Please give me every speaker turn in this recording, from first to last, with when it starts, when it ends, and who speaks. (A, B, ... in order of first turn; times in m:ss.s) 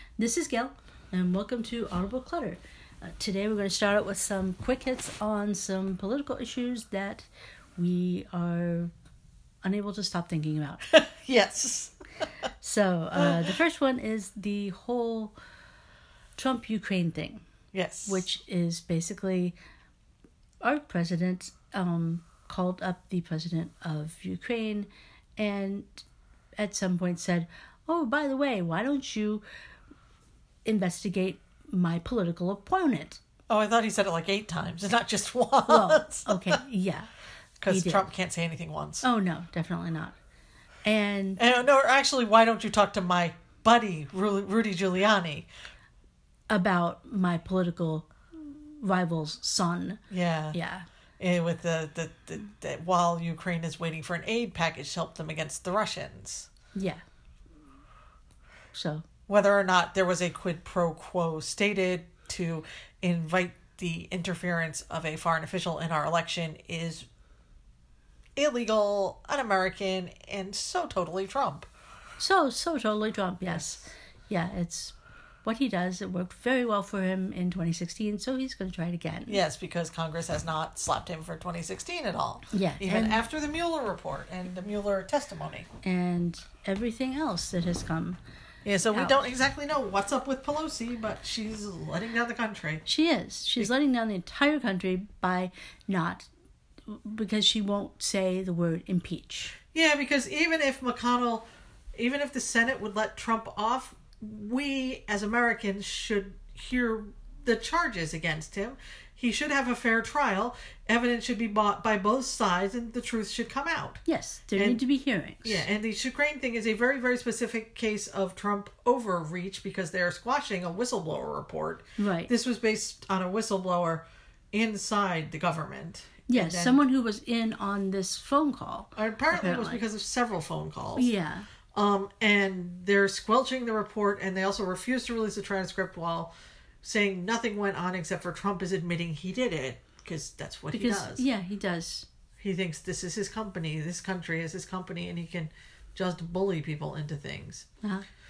0:00.2-0:08.9 A
0:09.6-0:10.8 A
0:10.9-0:12.0 B
0:12.6-0:15.3 A
0:13.2-0:13.5 B
0:16.4-0:17.4 A
0:17.7-0:18.2 B
0:18.0-0:19.6 A
0:20.6-0:26.0 A
0:26.6-0:29.4 A
0:30.6-0:33.2 A
0:33.5-0:36.6 B
0:35.7-0:37.1 A
0:37.6-0:39.0 B
0:37.7-0:38.1 A
0:39.0-0:40.2 A
0:40.8-0:41.4 A
0:41.4-0:45.5 B
0:46.5-0:50.0 A
0:50.1-0:50.6 B
0:50.5-0:50.9 A
0:51.2-0:56.5 B
0:56.8-0:57.0 A
0:58.7-0:59.0 A
0:59.3-1:07.1 B
1:08.4-1:11.7 B
1:12.2-1:19.4 A
1:13.5-1:13.8 B
1:19.3-1:25.7 B
1:22.5-1:23.2 A
1:25.8-1:28.2 A
1:28.6-1:32.8 B
1:28.9-1:29.3 A
1:32.8-1:36.3 A
1:36.9-1:39.6 A
1:39.7-1:54.0 B
1:54.0-1:55.6 A
1:54.6-1:54.8 B
1:55.4-2:06.8 B
2:02.0-2:02.3 A
2:06.3-2:09.8 A
2:09.0-2:11.1 B
2:11.0-2:11.5 A
2:11.7-2:16.3 B
2:16.8-2:21.2 B
2:20.7-2:22.1 A
2:22.4-2:27.7 B